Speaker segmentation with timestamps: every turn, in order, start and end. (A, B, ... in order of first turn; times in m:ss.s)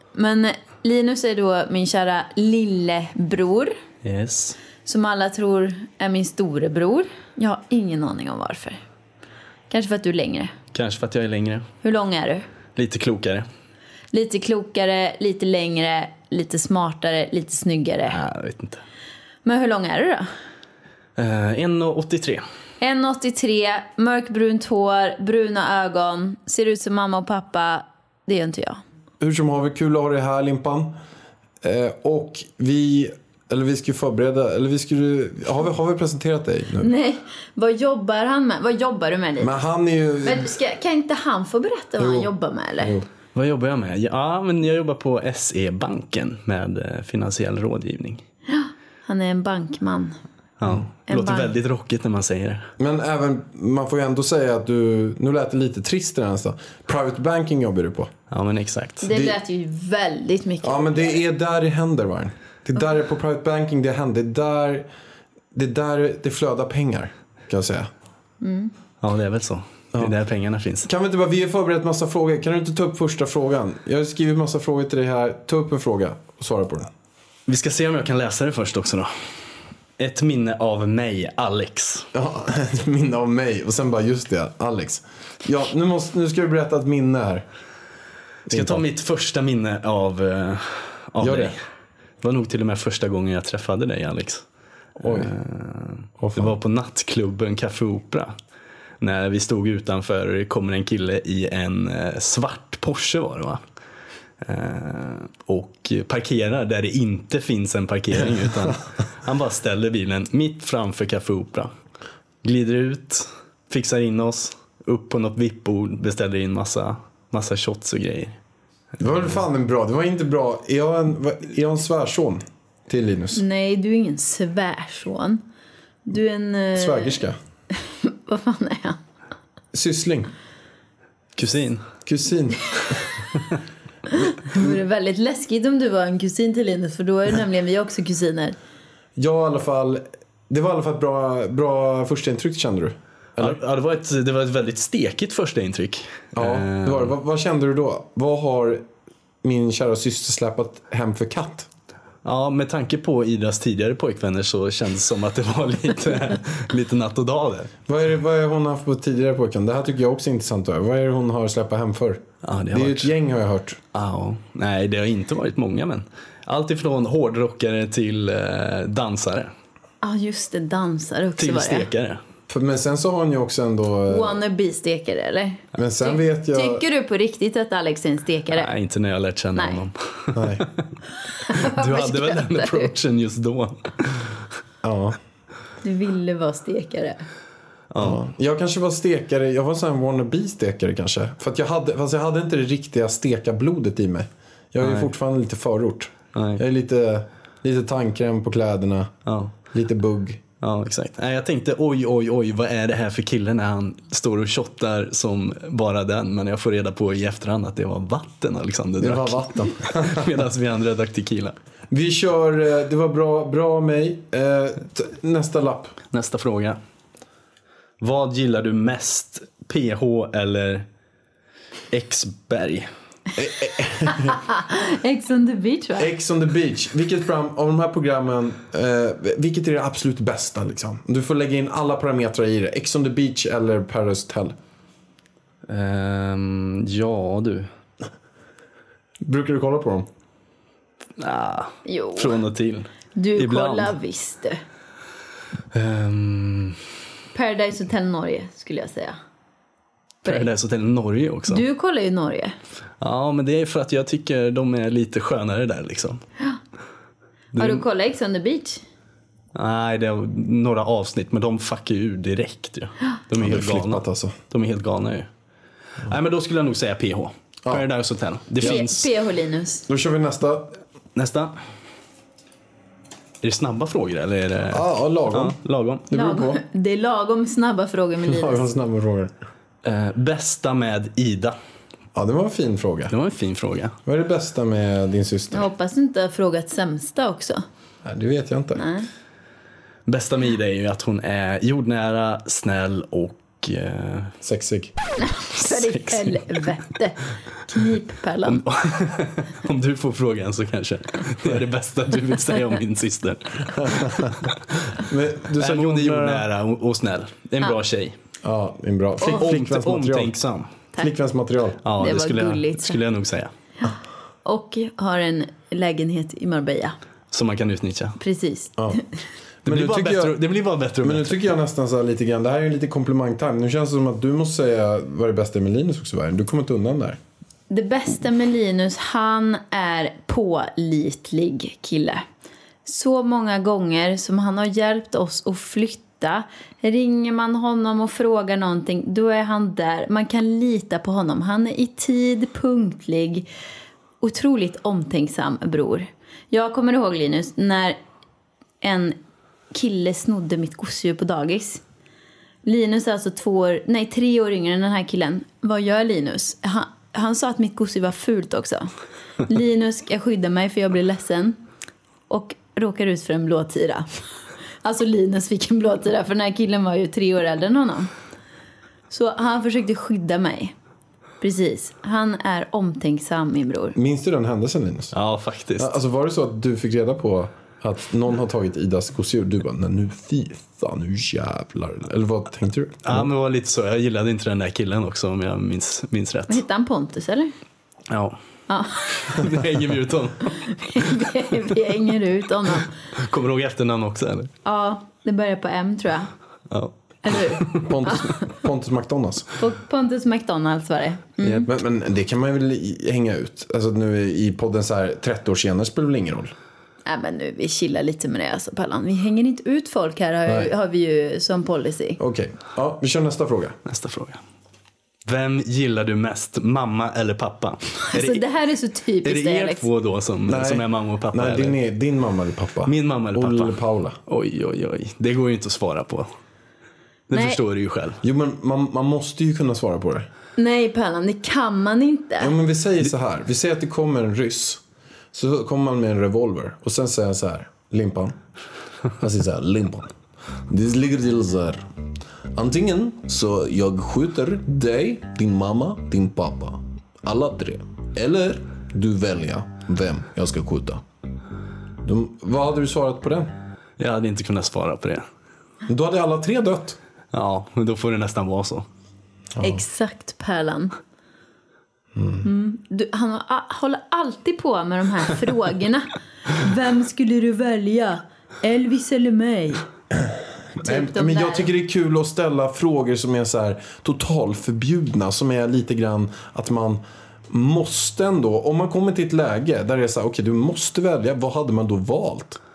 0:00.1-0:03.7 A
0:04.0-0:04.6 B
0:04.8-0:08.8 A
0:09.7-0:10.5 A
0:10.7-0:11.7 B
0:11.8-0:12.5 A
0:12.8-0:13.5 B
0:14.1-0:18.2 A
0:18.1-0:18.8 B
0:19.4-0:20.3 A
0:21.2-0:22.4 B
0:22.8-0:28.8 A
0:29.2-0:30.9 C
0:31.6-0:36.9 C
0:36.8-0:39.5 A
0:39.4-0:40.5 C
0:40.2-0:42.9 A
0:42.0-0:43.1 C
0:43.3-0:48.2 B
0:48.5-0:50.2 A
0:50.6-0:52.7 B
0:51.1-0:51.5 A
0:52.8-0:58.1 C
0:58.3-0:59.0 B
0:59.0-1:01.2 A
0:59.1-0:59.4 C
1:00.6-1:04.9 C
1:05.5-1:07.9 C
1:08.4-1:08.7 A
1:09.0-1:10.9 B
1:10.8-1:16.9 C
1:17.5-1:19.1 B
1:20.0-1:22.1 B
1:22.1-1:27.4 C
1:28.5-1:28.8 C
1:28.5-1:31.6 B
1:31.2-1:31.5 C
1:32.2-1:34.4 B
1:35.0-1:35.3 C
1:35.0-1:38.3 B
1:36.2-1:36.6 C
1:39.0-1:43.6 B
1:44.4-1:51.7 B
1:52.4-1:58.4 B
1:59.0-2:03.4 C
2:03.4-2:05.4 A
2:06.1-2:07.2 A
2:06.8-2:07.4 C
2:07.8-2:09.0 A
2:09.7-2:10.3 C
2:11.4-2:11.8 B
2:12.0-2:13.1 C
2:14.2-2:14.7 C
2:14.2-2:18.6 A
2:19.2-2:23.6 C
2:23.4-2:27.1 B
2:26.3-2:28.8 C
2:29.4-2:31.7 C
2:32.2-2:37.7 B
2:37.9-2:43.8 C
2:42.4-2:43.1 B
2:43.9-2:49.5 B
2:50.0-2:51.9 A
2:51.4-2:52.2 B
2:52.5-2:54.4 C
2:54.1-2:58.7 A
2:55.7-2:56.8 C
2:58.5-3:00.9 B
2:59.6-2:59.8 A
3:00.3-3:00.6 C
3:01.4-3:02.9 A
3:01.5-3:04.4 B
3:04.8-3:05.2 C
3:05.8-3:07.2 A
3:07.9-3:08.2 B
3:08.0-3:19.1 C
3:14.8-3:15.1 B
3:16.3-3:16.6 B
3:19.2-3:19.5 B
3:19.7-3:20.4 C
3:20.6-3:31.6 B
3:29.0-3:30.3 C
3:31.9-3:35.9 C
3:36.1-3:36.8 B
3:38.0-3:40.8 B
3:41.9-3:42.9 B
3:43.4-3:44.4 C
3:44.1-3:46.1 A
3:46.0-3:54.5 C
3:55.7-3:57.7 B
3:59.2-4:00.1 C
4:01.2-4:03.9 B
4:01.8-4:02.4 A
4:03.2-4:04.6 A
4:05.7-4:06.8 B
4:07.3-4:09.2 A
4:10.2-4:11.6 B
4:11.5-4:12.5 A
4:13.0-4:16.2 B
4:17.5-4:17.8 B
4:17.6-4:18.8 A
4:19.5-4:25.3 B
4:23.4-4:24.3 C
4:26.0-4:29.1 B
4:28.6-4:29.8 A
4:29.9-4:30.8 C
4:31.2-4:31.6 B
4:33.4-4:36.1 B
4:34.7-4:35.6 C
4:36.1-4:36.6 C
4:36.1-4:38.6 A
4:38.2-4:39.3 C
4:39.8-4:41.6 B
4:42.1-4:43.1 C
4:43.1-4:44.0 B
4:44.0-4:45.7 C
4:45.5-4:47.6 A
4:48.0-4:48.8 C
4:48.8-4:49.1 A
4:50.1-4:54.3 B
4:54.4-4:54.9 C
4:55.2-4:58.6 A
4:55.5-4:56.4 B
4:58.4-5:04.6 B
5:03.8-5:04.3 C
5:05.0-5:06.4 C
5:05.6-5:08.1 B
5:08.4-5:10.4 C
5:09.2-5:10.7 B
5:11.0-5:11.8 C
5:11.8-5:13.5 B
5:12.0-5:13.0 A
5:13.8-5:16.9 A
5:17.3-5:18.2 B
5:18.2-5:19.0 A
5:19.6-5:20.4 C
5:19.6-5:21.4 B
5:21.0-5:27.2 C
5:27.7-5:32.2 A
5:32.8-5:43.5 A
5:44.2-5:48.0 A
5:48.8-5:49.2 A
5:49.7-5:51.8 A
5:52.6-5:58.9 A
5:59.4-6:01.6 A
6:02.3-6:04.1 A
6:04.8-6:08.1 A
6:09.1-6:10.7 A
6:11.4-6:14.0 A
6:14.0-6:15.1 C
6:15.1-6:15.9 B
6:15.8-6:23.3 C
6:23.0-6:26.6 B
6:26.5-6:27.5 A
6:28.1-6:28.4 B
6:28.7-6:29.4 A
6:29.2-6:30.5 B
6:30.5-6:32.9 A
6:33.2-6:34.5 B
6:34.6-6:36.3 A
6:37.2-6:38.3 A
6:37.6-6:37.8 B
6:37.8-6:39.5 C
6:39.6-6:41.7 A
6:41.6-6:46.5 C
6:47.0-6:52.2 A
6:52.2-6:53.8 C
6:53.8-6:54.4 B
6:55.3-6:58.4 B
6:58.1-6:59.8 A
6:59.2-7:01.8 B
7:00.5-7:04.2 C
7:02.8-7:06.3 B
7:07.3-7:08.2 B
7:07.3-7:07.6 A
7:08.2-7:10.3 C
7:10.6-7:12.5 A
7:12.4-7:14.8 C
7:15.3-7:18.4 C
7:19.2-7:20.1 C
7:20.7-7:21.9 C
7:22.5-7:31.0 C
7:32.0-7:33.5 C
7:34.0-7:35.2 B
7:35.9-7:37.0 C
7:37.3-7:38.9 B
7:39.6-7:39.8 C
7:39.6-7:40.9 A
7:42.1-7:42.5 C
7:42.4-7:49.8 A
7:50.8-8:02.6 C
7:50.8-7:51.7 A